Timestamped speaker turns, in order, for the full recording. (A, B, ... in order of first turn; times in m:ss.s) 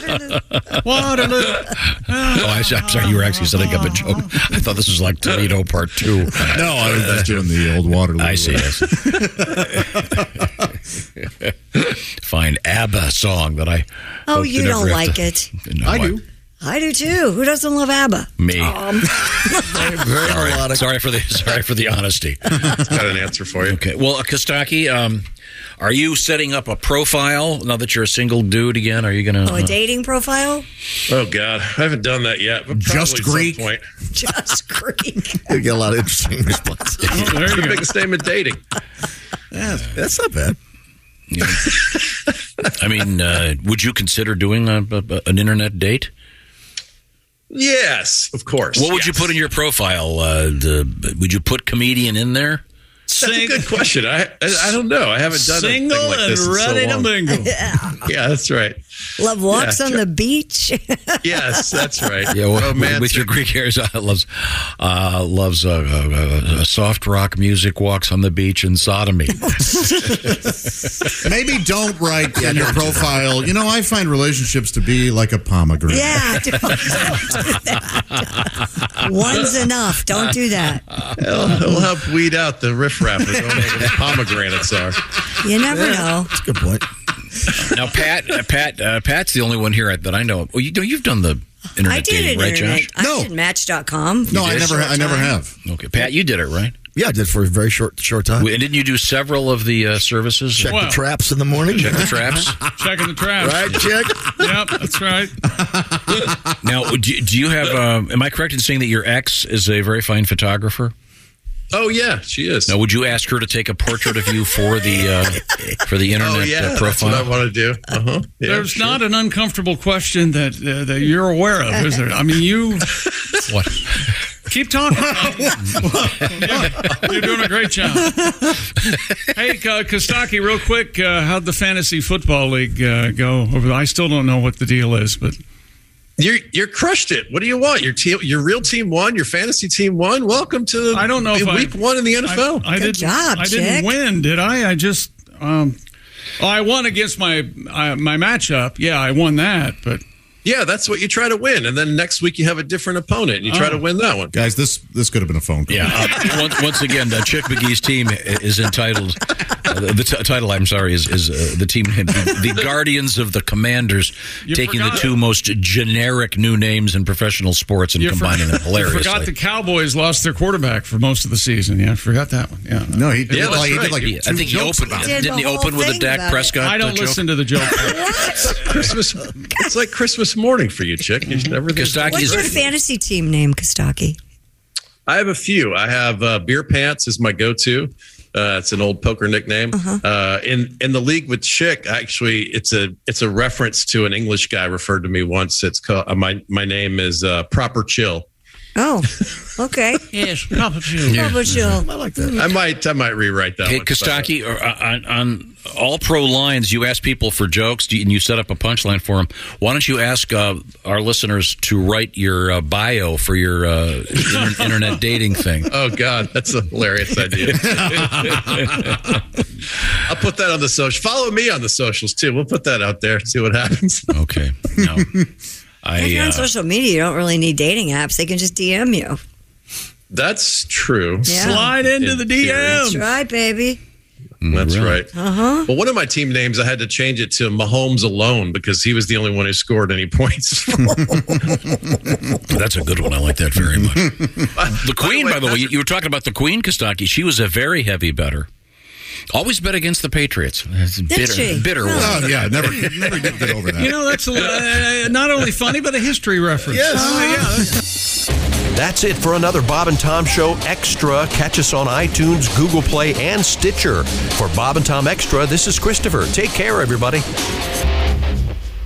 0:00.3-0:00.8 A
0:00.8-0:04.5 B
0:01.8-0:07.1 A
0:06.5-0:10.1 C
0:08.2-0:09.1 A
0:11.2-0:16.2 A
0:14.3-0:15.5 D
0:15.8-0:16.2 C
0:16.6-0:19.9 D
0:18.4-0:18.9 A
0:20.0-0:20.9 E
0:20.1-0:22.4 A
0:22.7-0:23.8 F
0:23.6-0:25.2 A
0:25.8-0:29.9 A
0:29.4-0:30.6 D
0:31.1-0:33.8 F
0:32.7-0:33.6 C
0:34.1-0:35.6 D
0:35.5-0:37.6 E
0:37.1-0:37.3 A
0:37.1-0:37.8 B
0:37.4-0:38.6 F
0:39.6-0:40.6 E
0:41.3-0:41.7 A
0:42.8-0:46.1 A
0:47.5-0:49.4 F
0:48.8-0:52.6 A
0:53.1-0:53.8 B
0:53.2-0:57.2 F
0:55.3-0:57.6 B
0:57.3-0:58.0 D
0:58.0-0:58.8 F
0:59.2-1:01.8 D
0:59.5-1:00.1 F
1:01.2-1:03.4 F
1:02.3-1:09.6 A
1:09.4-1:10.0 D
1:11.2-1:16.4 C
1:12.4-1:13.1 A
1:15.9-1:17.6 D
1:19.0-1:20.8 D
1:21.2-1:25.0 F
1:25.4-1:26.3 D
1:26.4-1:26.8 E
1:27.7-1:32.9 A
1:31.8-1:34.3 D
1:33.0-1:33.3 C
1:34.2-1:35.1 A
1:34.3-1:35.5 C
1:35.0-1:35.4 D
1:35.6-1:36.8 A
1:37.0-1:38.5 E
1:38.4-1:40.8 A
1:40.6-1:42.2 E
1:40.7-1:41.0 B
1:41.7-1:42.6 A
1:42.8-1:43.6 B
1:43.4-1:44.4 E
1:43.6-1:44.0 A
1:44.4-1:45.4 B
1:46.6-1:50.9 A
1:51.7-1:52.8 F
1:52.7-1:57.4 A
1:56.2-1:59.0 F
1:58.4-2:03.0 B
2:04.5-2:05.7 B
2:06.4-2:08.5 B
2:09.3-2:15.4 B
2:16.2-2:22.7 F
2:20.9-2:25.8 B
2:22.8-2:24.0 D
2:26.4-2:30.0 B
2:30.4-2:34.3 F
2:33.5-2:33.8 B
2:34.3-2:36.2 C
2:35.7-2:49.3 A
2:44.5-2:45.2 B
2:48.0-2:53.6 B
2:52.9-2:55.3 C
2:53.3-2:54.0 F
2:53.4-2:57.2 A
2:55.0-2:56.6 D
2:56.6-2:58.0 B
2:57.8-2:58.6 D
2:58.3-3:02.7 F
3:01.3-3:01.6 B
3:01.7-3:02.7 A
3:02.1-3:04.2 D
3:05.1-3:18.3 F
3:09.7-3:10.0 D
3:18.8-3:20.0 D
3:20.1-3:21.8 B
3:21.0-3:21.4 A
3:21.1-3:22.4 D
3:21.9-3:22.2 E
3:22.4-3:24.3 F
3:23.6-3:35.7 A
3:35.7-3:38.0 F
3:37.6-3:38.7 A
3:37.6-3:38.6 C
3:40.1-3:44.2 F
3:44.1-3:45.1 A
3:45.8-3:46.5 A
3:46.0-3:49.2 D
3:50.1-3:53.0 F
3:51.3-3:51.7 D
3:51.4-3:53.1 B
3:52.8-3:53.8 D
3:54.4-3:55.0 A
3:54.5-4:01.0 F
3:55.1-3:55.7 D
4:02.5-4:08.5 A
4:03.6-4:04.4 C
4:04.5-4:05.8 F
4:09.3-4:12.9 A
4:11.1-4:12.3 D
4:12.0-4:14.0 C
4:13.8-4:17.8 B
4:16.9-4:17.6 D
4:18.7-4:27.3 G